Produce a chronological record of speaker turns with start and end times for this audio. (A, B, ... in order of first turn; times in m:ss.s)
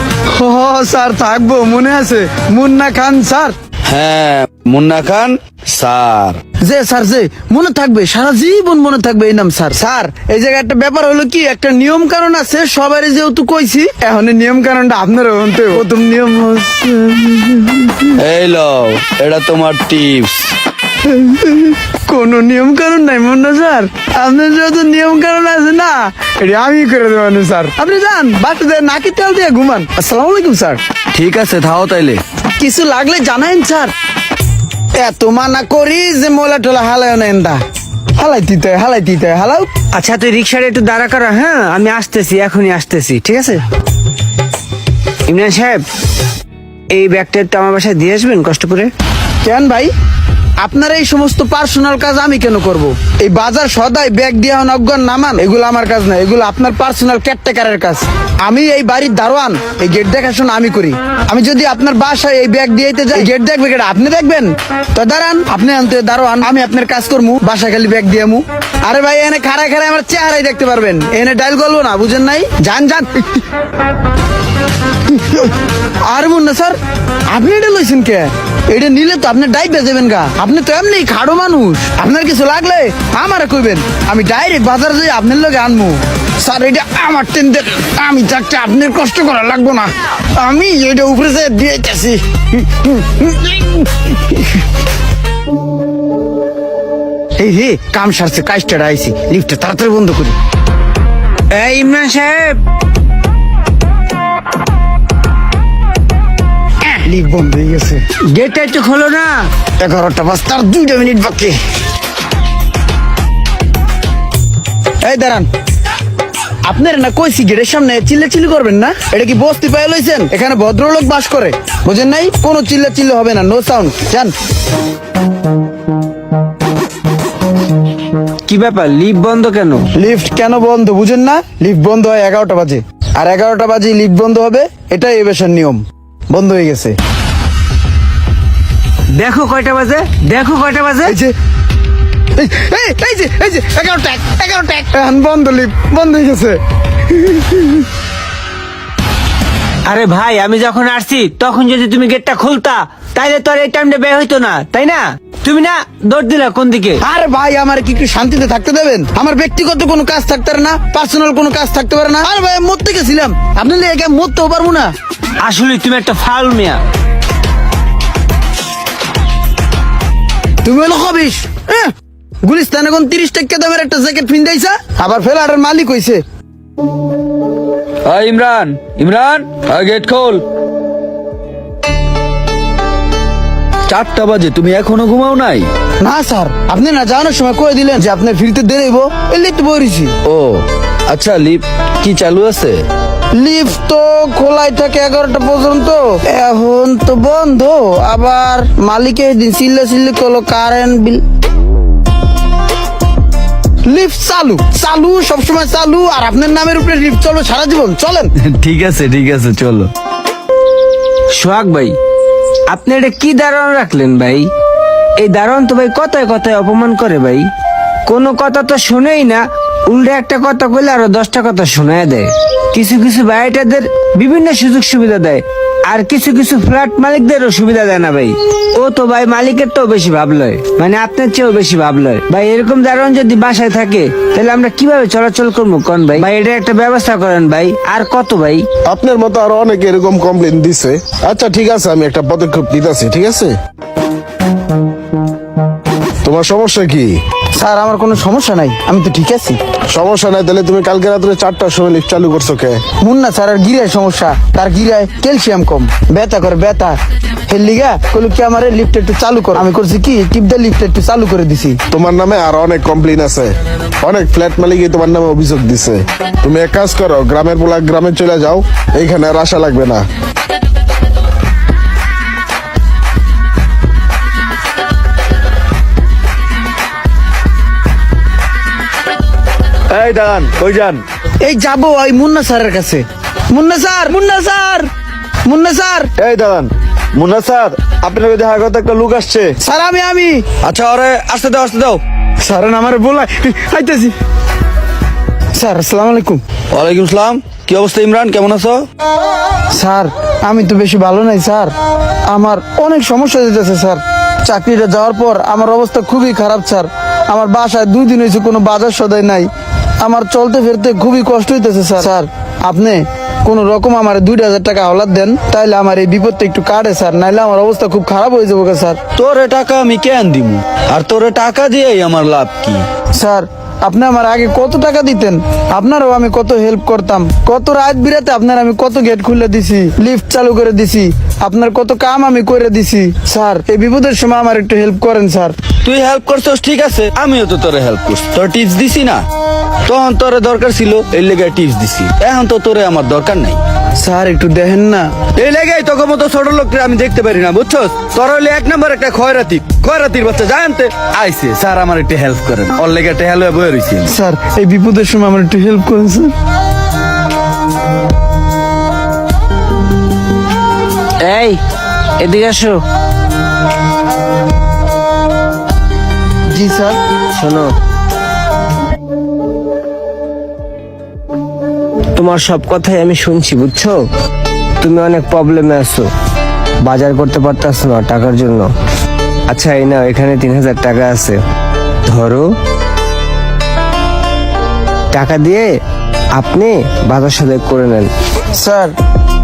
0:00.3-0:03.6 A
0:03.9-0:06.4 B
0:06.6-0:18.1 A
0:18.2-0:20.5 B
0:21.0-0:30.8 A
0:31.1-0:32.2 B
0:32.6-0:33.9 A
0:35.0-0:37.6 A
0:38.2-0:39.7 A
0:39.9-0:43.6 C
0:45.3-0:45.8 C
0:46.9-0:48.9 C
0:49.4-0:49.9 A
0:50.6-1:13.4 A
1:15.1-1:16.8 A
1:17.3-1:34.6 A
1:37.4-1:40.4 A
1:41.5-1:42.6 C
1:47.0-1:48.0 A
1:48.3-1:49.5 C
1:49.8-1:51.6 A
1:55.0-1:55.5 A
1:56.6-2:04.3 A
2:08.5-2:09.9 C
2:10.0-2:17.0 A
2:19.1-2:21.2 C
2:21.0-2:21.3 A
2:22.4-2:27.8 A
2:29.9-2:37.0 C
2:37.0-2:44.9 A
2:45.4-2:46.8 C
2:50.6-2:51.9 A
2:52.4-2:56.2 A
2:58.1-3:00.4 B
3:03.9-3:05.7 B
3:06.0-3:10.1 A
3:10.2-3:12.9 B
3:13.3-3:21.2 A
3:23.9-3:28.3 A
3:28.4-3:29.9 B
3:31.4-3:32.0 C
3:32.7-3:34.5 C
3:35.2-3:37.5 C
3:38.1-3:58.6 C
3:58.9-4:03.6 D
4:06.2-4:07.2 D
4:07.6-4:09.6 A
4:09.9-4:12.8 D
4:13.0-4:21.8 A
4:21.9-4:30.0 D
4:39.9-4:41.0 B
4:41.4-4:44.9 A
4:45.5-4:46.1 A
4:46.2-4:49.6 B
4:49.6-4:50.5 A
4:50.6-4:52.0 B
4:52.4-4:54.1 A
4:55.6-4:56.4 A
4:56.7-4:58.9 B
4:59.7-5:01.7 A
5:02.3-5:09.5 A
5:10.0-5:19.0 A
5:19.2-5:22.9 B
5:23.2-5:35.6 A
5:35.8-5:39.2 B
5:39.8-5:43.6 B
5:44.0-5:45.2 A
5:45.4-5:54.1 B
5:54.1-5:56.3 A
6:01.2-6:01.6 C
6:02.2-6:02.8 C
6:06.5-6:07.0 A
6:07.4-6:07.7 C
6:12.2-6:14.0 C
6:14.8-6:16.1 C
6:16.8-6:18.7 C
6:19.5-6:21.4 C
6:22.1-6:22.5 C
6:25.1-6:25.7 C
6:26.4-6:28.1 C
6:28.5-6:28.9 A